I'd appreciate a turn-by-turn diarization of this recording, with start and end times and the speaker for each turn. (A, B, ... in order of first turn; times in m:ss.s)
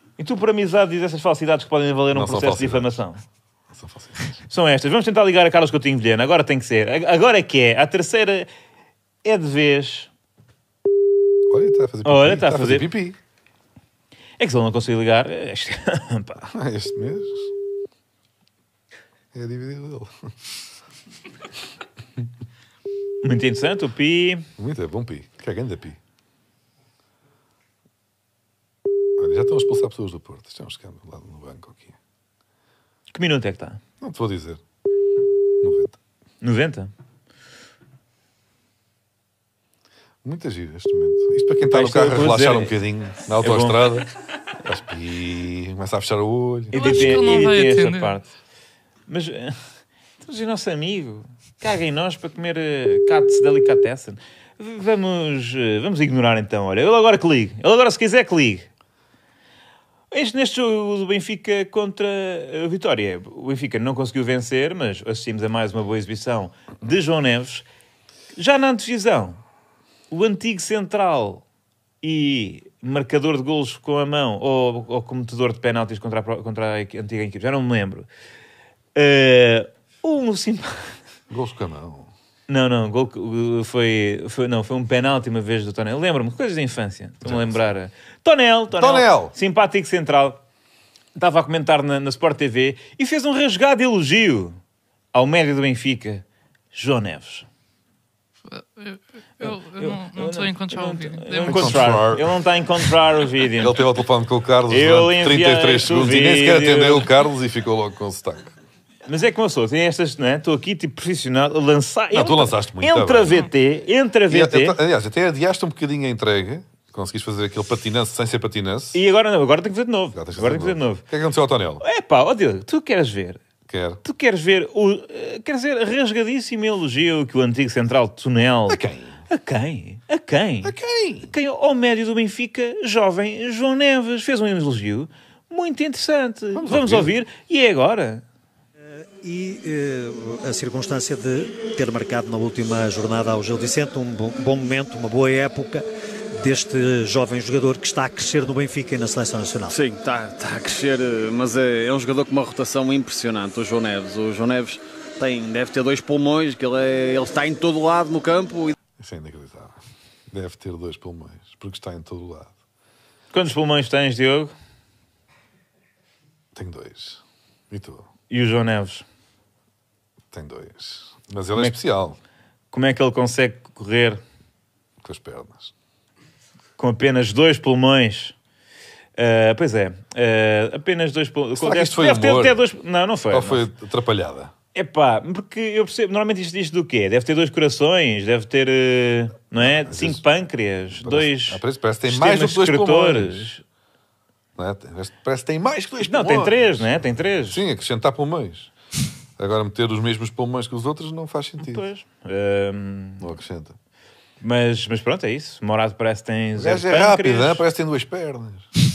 0:00.2-0:03.2 A
0:02.1-0:03.0 B
0:03.7-0:04.4 B
0:04.5-0:08.5 A
0:09.2-0:10.1 A
0:11.5-0:13.2 B
0:12.0-0:12.9 A
0:14.4-0:16.5 A
0:16.4-0:17.5 B
0:19.3-0:20.3 B
0:23.2-0:24.5 A
0:24.6-0:26.0 B
0:29.2-0:32.0 B
0:33.1-0:33.8 A
0:34.0-0:34.6 B
0:35.6-0:36.0 B
0:36.4-0:36.9 A
0:40.2-0:44.1 B
0:41.7-0:42.8 A
0:43.4-0:43.8 A
0:44.6-0:47.4 B
0:46.7-0:48.3 A
0:46.7-0:48.2 C
0:49.1-0:49.6 A
0:50.2-0:58.7 A
1:00.1-1:07.7 A
1:08.4-1:09.4 A
1:10.1-1:11.4 A
1:12.0-1:18.1 A
1:19.0-1:21.0 A
1:21.3-1:22.1 B
1:22.5-1:30.4 A
1:27.2-1:27.6 B
1:28.7-1:29.3 B
1:31.2-1:34.6 A
1:35.1-1:37.5 A
1:38.5-1:42.0 C
1:39.4-1:43.8 A
1:41.5-1:42.4 B
1:43.6-1:48.6 B
1:44.7-1:47.1 A
1:49.1-1:54.8 A
1:52.1-1:53.5 B
1:54.3-1:59.0 B
1:58.9-2:01.0 A
2:00.1-2:01.8 B
2:01.8-2:03.4 A
2:03.7-2:04.0 B
2:04.0-2:10.8 A
2:08.7-2:09.2 B
2:10.6-2:11.3 B
2:11.3-2:18.2 A
2:16.6-2:17.2 B
2:19.0-2:25.8 D
2:26.4-2:29.8 D
2:29.7-2:38.8 E
2:39.0-2:39.8 B
2:40.3-2:42.5 B
2:43.3-2:44.5 A
2:46.6-2:48.1 B
2:48.3-2:49.0 A
2:50.3-2:52.2 B
2:52.7-2:54.2 A
2:55.0-2:55.7 B
2:56.8-2:58.4 A
2:59.2-3:03.7 A
3:01.6-3:02.6 B
3:03.3-3:04.5 B
3:04.7-3:13.6 A
3:09.6-3:10.2 B
3:10.9-3:13.5 B
3:14.6-3:18.7 B
3:16.0-3:17.6 A
3:19.4-3:21.8 B
3:21.6-3:23.3 A
3:23.2-3:23.8 B
3:24.4-3:27.6 A
3:26.6-3:28.7 B